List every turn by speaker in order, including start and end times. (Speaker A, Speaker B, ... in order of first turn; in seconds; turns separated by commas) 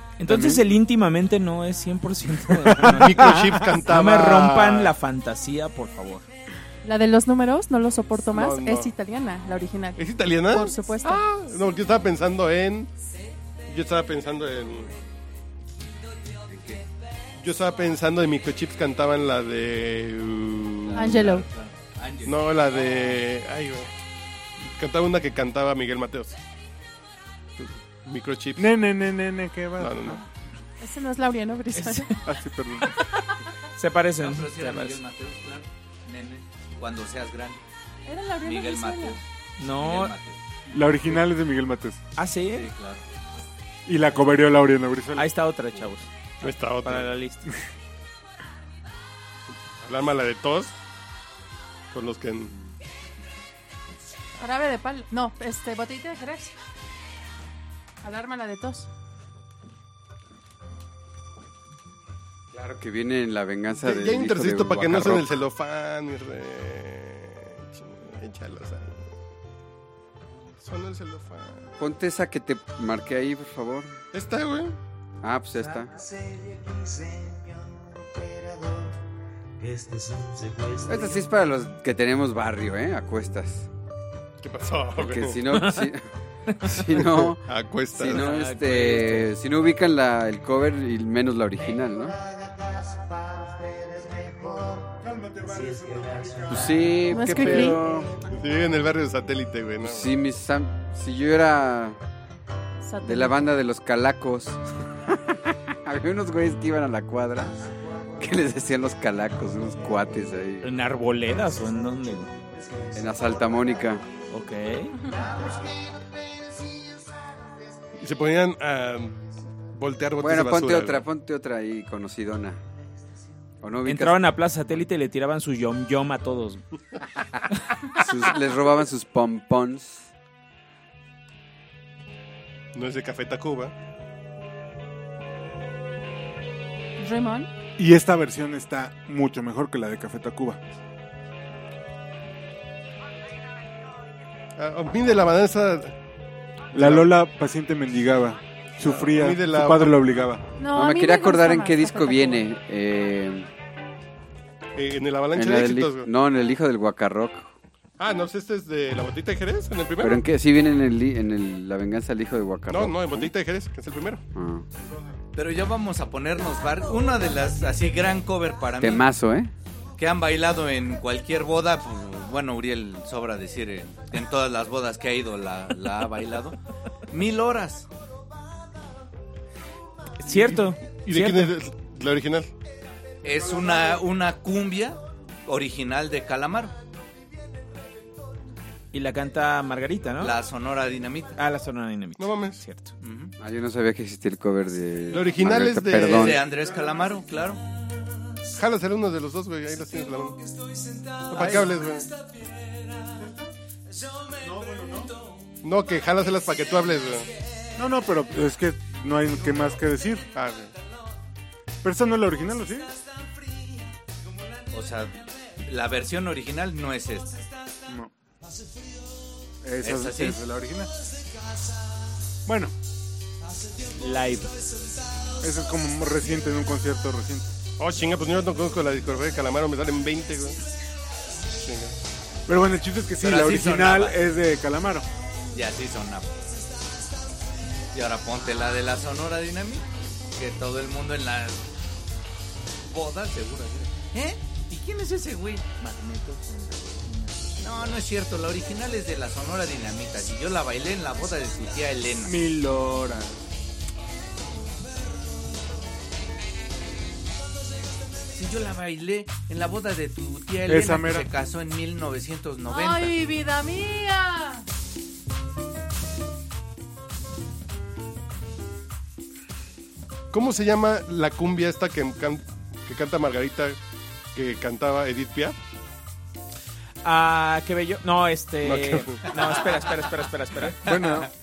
Speaker A: 0.2-6.2, Speaker B: 0.2-0.7, Speaker B: 2.6-3.5, Speaker C: 2.9-4.9, Speaker D: 6.8-11.2, Speaker C: 8.3-8.9, Speaker C: 10.0-12.9, Speaker C: 13.7-14.9, Speaker E: 16.5-16.8, Speaker C: 17.4-21.2, Speaker E: 20.8-23.2, Speaker D: 20.9-21.5, Speaker C: 22.2-23.9, Speaker C: 24.6-26.4, Speaker C: 27.6-28.7, Speaker B: 28.6-30.2, Speaker C: 29.8-30.2, Speaker D: 30.8-32.1, Speaker A: 31.7-32.2, Speaker B: 32.2-33.0, Speaker A: 33.8-35.0, Speaker E: 34.2-37.6, Speaker D: 38.0-39.2, Speaker E: 38.4-40.4, Speaker A: 39.6-40.1, Speaker B: 40.7-42.0, Speaker A: 42.1-42.7, Speaker E: 42.5-43.0, Speaker B: 43.9-45.3, Speaker A: 45.1-46.1, Speaker C: 46.4-47.1, Speaker A: 46.8-47.4, Speaker C: 49.8-50.7, Speaker C: 51.9-52.5, Speaker D: 54.4-56.5, Speaker D: 58.0-58.9, Speaker F: 62.5-65.3, Speaker C: 63.7-69.0, Speaker C: 70.6-71.7, Speaker F: 71.8-74.0, Speaker C: 74.1-74.8, Speaker F: 75.2-76.0, Speaker F: 80.8-83.7, Speaker C: 84.4-85.4, Speaker F: 85.0-86.1, Speaker A: 85.5-85.9, Speaker A: 86.5-86.8, Speaker F: 86.6-87.4, Speaker C: 86.9-88.3, Speaker F: 87.9-92.2, Speaker A: 88.1-89.3, Speaker B: 94.0-97.6, Speaker F: 96.5-98.1, Speaker D: 97.1-97.8, Speaker C: 98.3-100.1, Speaker F: 99.8-102.0, Speaker D: 102.8-103.5, Speaker F: 103.0-107.6, Speaker F: 108.2-110.7, Speaker A: 110.6-112.3, Speaker F: 112.9-114.0, Speaker A: 114.3-115.1, Speaker C: 118.0-121.0, Speaker F: 120.2-122.6, Speaker F: 123.6-124.2, Speaker A: 123.8-126.6, Speaker F: 128.0-130.1, Speaker C: 132.7-133.7, Speaker D: 137.0-137.5, Speaker B: 137.8-140.6, Speaker C: 144.6-145.9, Speaker C: 146.7-147.1, Speaker B: 146.7-150.4, Speaker C: 148.8-150.0, Speaker D: 150.6-152.5, Speaker F: 150.7-153.5, Speaker C: 154.8-156.1, Speaker F: 155.3-157.5, Speaker C: 158.0-160.2, Speaker F: 160.0-163.3, Speaker C: 162.7-164.2, Speaker F: 164.3-164.6, Speaker B: 164.8-165.2, Speaker E: 165.3-169.1, Speaker F: 168.8-169.5, Speaker E: 170.0-176.6, Speaker E: 177.1-177.9, Speaker A: 180.2-181.5, Speaker C: 180.2-182.5, Speaker E: 183.2-186.7, Speaker A: 188.9-190.3, Speaker E: 190.2-191.4, Speaker A: 191.3-192.9, Speaker C: 192.2-192.6, Speaker E: 193.0-193.3, Speaker F: 193.4-196.4, Speaker C: 195.1-196.4, Speaker E: 195.9-197.6, Speaker C: 198.5-200.4, Speaker C: 201.3-202.1, Speaker E: 201.3-201.7, Speaker B: 203.2-203.5, Speaker B: 204.4-205.2, Speaker C: 205.6-207.3, Speaker B: 207.8-210.2, Speaker C: 210.3-210.7, Speaker B: 211.8-212.9, Speaker E: 214.7-217.4, Speaker B: 219.6-220.9, Speaker E: 219.8-220.4, Speaker B: 222.4-222.7, Speaker A: 224.0-224.6, Speaker B: 225.4-227.5, Speaker C: 227.8-230.6, Speaker C: 231.6-231.9, Speaker B: 232.5-235.1, Speaker E: 233.2-234.2, Speaker E: 235.5-236.3, Speaker E: 237.9-241.6, Speaker E: 242.8-245.7, Speaker A: 245.8-248.0, Speaker E: 247.6-252.3, Speaker B: 252.2-253.4, Speaker E: 258.3-263.1, Speaker B: 260.7-261.3, Speaker D: 262.7-264.6, Speaker C: 270.3-273.8, Speaker C: 274.3-275.6, Speaker A: 277.0-280.9, Speaker C: 278.6-279.4, Speaker B: 280.7-281.3, Speaker E: 280.9-281.2